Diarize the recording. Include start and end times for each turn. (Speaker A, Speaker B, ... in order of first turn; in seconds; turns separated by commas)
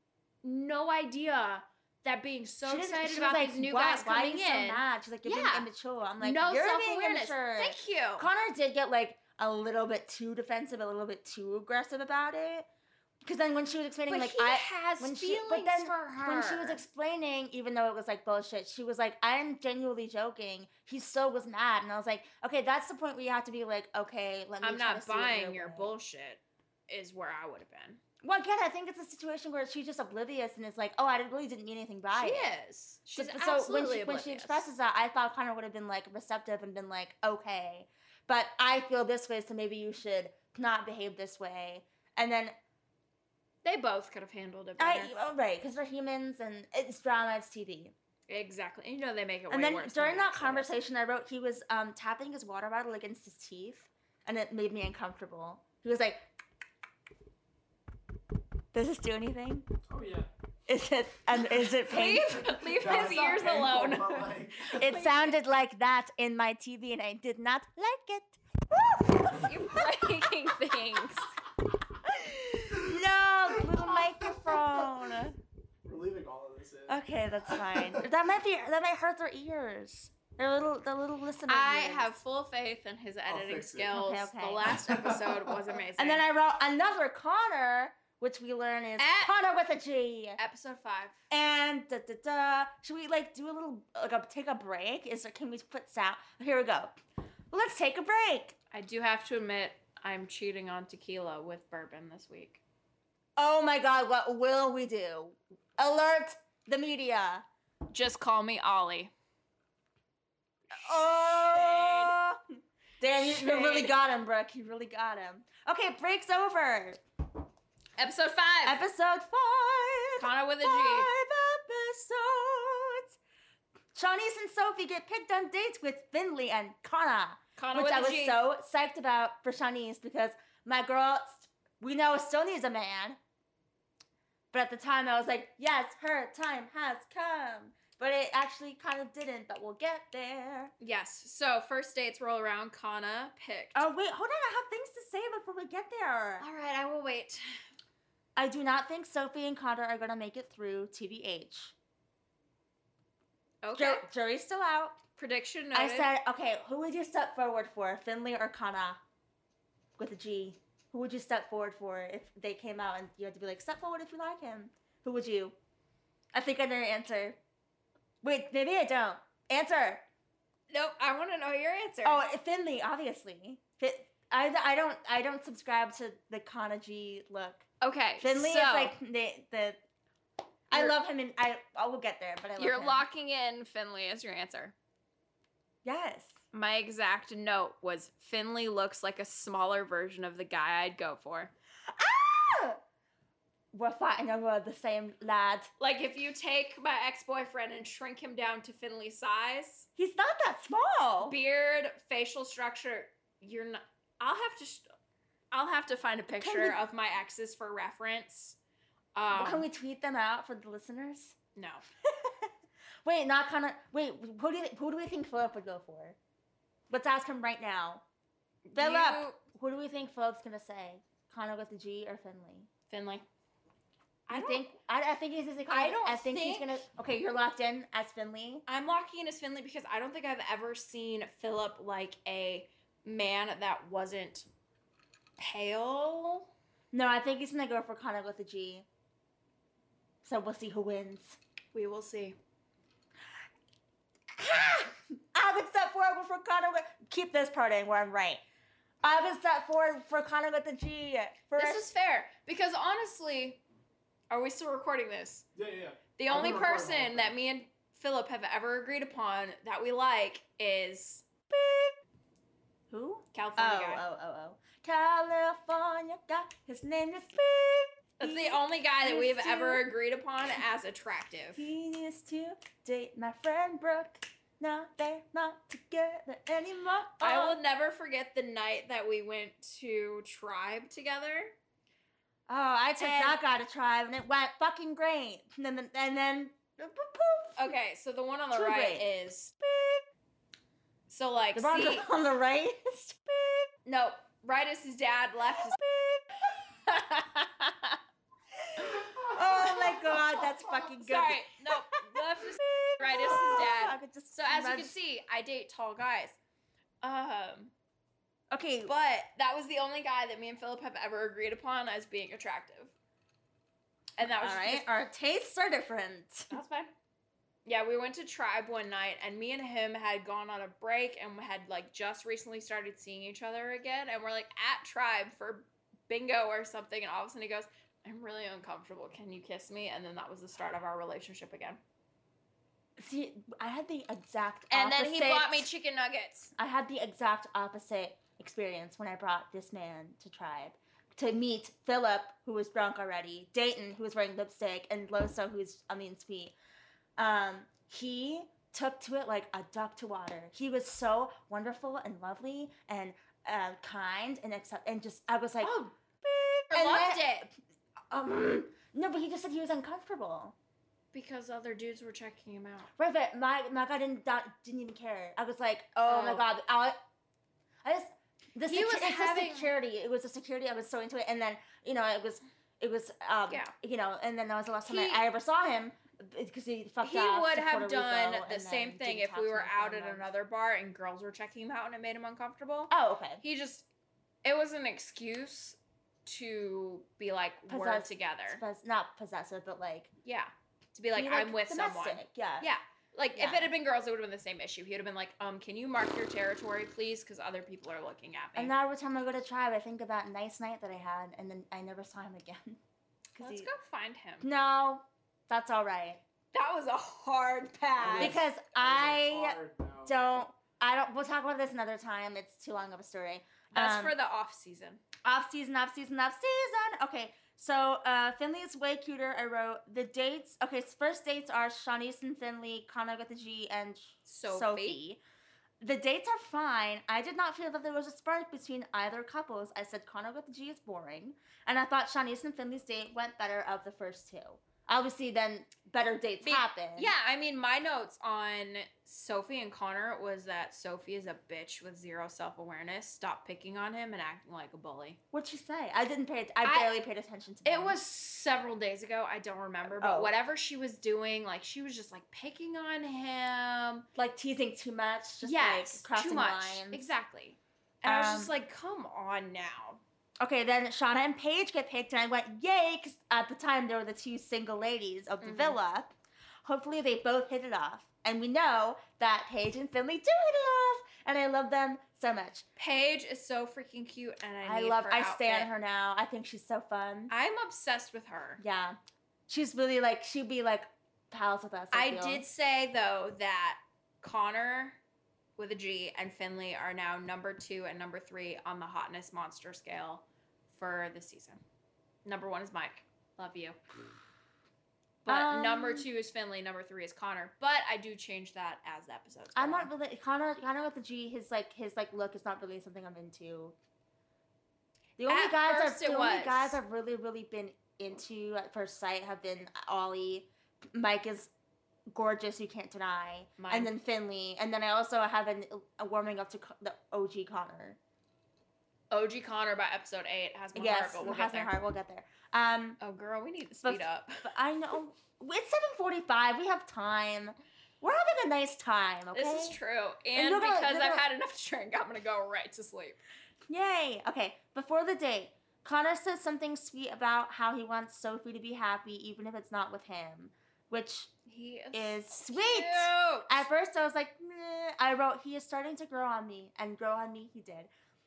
Speaker A: 0.4-5.7, Speaker B: 2.6-12.7, Speaker A: 6.2-8.3, Speaker B: 13.2-25.9, Speaker A: 14.1-16.8, Speaker A: 24.6-28.0, Speaker B: 28.2-32.5, Speaker A: 32.1-34.7, Speaker B: 33.1-42.5, Speaker A: 43.6-45.1, Speaker B: 44.8-47.9, Speaker A: 48.3-50.7, Speaker B: 49.5-56.2, Speaker B: 58.7-59.7, Speaker C: 59.9-60.3, Speaker B: 60.7-63.3, Speaker A: 61.8-65.3, Speaker C: 62.2-64.9, Speaker B: 64.7-70.3, Speaker A: 69.3-71.4, Speaker A: 72.1-72.8, Speaker B: 72.7-75.4, Speaker A: 73.6-74.9, Speaker C: 75.8-78.0, Speaker B: 76.9-82.1, Speaker A: 81.5-86.2, Speaker C: 83.3-84.0, Speaker B: 83.9-84.8, Speaker C: 84.7-85.6, Speaker B: 86.0-90.4, Speaker A: 89.0-89.3, Speaker A: 90.4-91.2, Speaker B: 91.3-97.0, Speaker B: 97.5-98.6, Speaker A: 98.7-102.6, Speaker B: 103.4-107.4, Speaker A: 107.9-109.1, Speaker A: 110.7-112.2, Speaker B: 110.7-112.4, Speaker B: 113.0-117.0, Speaker A: 113.1-113.9, Speaker A: 118.0-118.8, Speaker B: 118.7-123.2, Speaker A: 120.2-121.1, Speaker B: 124.0-133.2, Speaker A: 127.6-128.4, Speaker B: 134.5-140.7, Speaker A: 140.8-143.8, Speaker B: 143.8-146.5, Speaker A: 146.4-147.6, Speaker B: 148.4-151.8, Speaker A: 153.6-154.0, Speaker B: 153.8-155.0, Speaker A: 155.2-156.1, Speaker B: 155.7-159.0, Speaker B: 160.0-165.5, Speaker B: 166.3-167.4, Speaker B: 168.2-170.0, Speaker A: 170.7-172.2, Speaker B: 172.0-177.7, Speaker A: 177.8-178.9, Speaker B: 178.2-179.8, Speaker B: 180.7-183.1, Speaker A: 182.6-184.8, Speaker B: 185.8-186.4, Speaker A: 186.5-191.5, Speaker B: 192.0-192.8, Speaker B: 193.7-195.7, Speaker A: 195.8-199.9, Speaker B: 200.0-201.3, Speaker A: 201.2-204.9, Speaker A: 205.5-208.6, Speaker B: 206.4-206.8, Speaker A: 209.2-209.7, Speaker B: 209.3-211.4, Speaker A: 211.6-211.8, Speaker B: 212.1-212.5, Speaker B: 213.1-216.2, Speaker B: 216.9-218.0, Speaker A: 218.7-219.4, Speaker B: 218.8-222.7, Speaker A: 222.9-223.3, Speaker A: 224.3-224.7, Speaker B: 224.3-228.6, Speaker A: 225.7-226.8, Speaker A: 228.7-234.5, Speaker A: 235.4-236.5, Speaker B: 236.9-238.8, Speaker B: 240.2-241.4, Speaker A: 241.7-242.4, Speaker B: 244.4-248.4, Speaker B: 249.0-251.9, Speaker A: 251.6-253.6, Speaker A: 254.3-255.4, Speaker C: 255.6-257.3, Speaker A: 256.2-261.3, Speaker B: 261.5-261.9, Speaker B: 262.9-269.8, Speaker A: 263.3-264.0, Speaker A: 268.2-271.6, Speaker B: 271.6-277.6, Speaker A: 277.2-281.6, Speaker B: 282.5-287.6, Speaker A: 283.0-283.4, Speaker A: 287.6-289.6, Speaker B: 288.5-289.1, Speaker B: 289.6-290.0, Speaker A: 291.1-292.1, Speaker B: 291.6-293.7, Speaker A: 293.9-295.8, Speaker B: 295.6-297.6, Speaker B: 298.7-304.9, Speaker C: 299.1-300.1, Speaker A: 299.4-306.4, Speaker A: 307.0-307.7, Speaker B: 308.5-308.9, Speaker A: 308.9-312.9, Speaker A: 314.2-314.9, Speaker B: 314.2-316.5, Speaker A: 316.5-316.9, Speaker A: 317.6-331.8, Speaker B: 333.0-335.7, Speaker A: 334.7-336.5, Speaker B: 336.6-346.5, Speaker B: 347.2-355.9, Speaker A: 355.6-357.5, Speaker B: 356.7-357.4, Speaker B: 358.1-360.6, Speaker A: 361.1-362.9, Speaker B: 363.0-367.0, Speaker A: 366.1-366.4, Speaker B: 367.8-380.2, Speaker A: 368.7-369.7, Speaker A: 374.9-375.2, Speaker A: 377.0-383.9, Speaker B: 382.9-383.4, Speaker A: 384.4-388.6, Speaker B: 387.7-390.1, Speaker A: 390.2-398.7, Speaker B: 391.1-392.7, Speaker B: 393.3-393.7, Speaker B: 398.6-402.8, Speaker B: 403.3-403.7, Speaker A: 403.4-404.5, Speaker B: 404.4-406.2, Speaker A: 406.5-408.4, Speaker C: 408.0-410.4, Speaker B: 408.2-414.1, Speaker A: 413.7-415.0, Speaker B: 415.2-425.2, Speaker A: 424.3-425.0, Speaker B: 425.8-437.1, Speaker A: 436.4-445.2, Speaker B: 445.3-448.0, Speaker A: 446.6-446.9, Speaker A: 447.6-454.1, Speaker B: 449.9-450.3, Speaker B: 454.2-457.1, Speaker A: 455.4-460.0, Speaker B: 458.1-458.5, Speaker B: 460.4-466.1, Speaker A: 465.4-465.8, Speaker B: 466.6-472.7, Speaker A: 472.8-475.7, Speaker B: 474.6-477.3, Speaker A: 477.3-478.6, Speaker B: 478.6-482.4, Speaker A: 481.9-485.0, Speaker A: 485.6-491.6, Speaker A: 492.2-493.8, Speaker A: 495.2-499.9, Speaker B: 495.3-496.1, Speaker B: 499.6-503.8, Speaker B: 505.2-511.5, Speaker A: 505.3-506.8, Speaker B: 512.1-518.0, Speaker A: 513.6-513.9, Speaker A: 519.1-521.7, Speaker B: 520.8-523.0, Speaker A: 523.0-524.5, Speaker B: 523.8-529.8, Speaker A: 529.3-533.2, Speaker B: 530.4-531.2, Speaker B: 533.7-541.3, Speaker A: 541.5-543.7, Speaker B: 541.9-547.9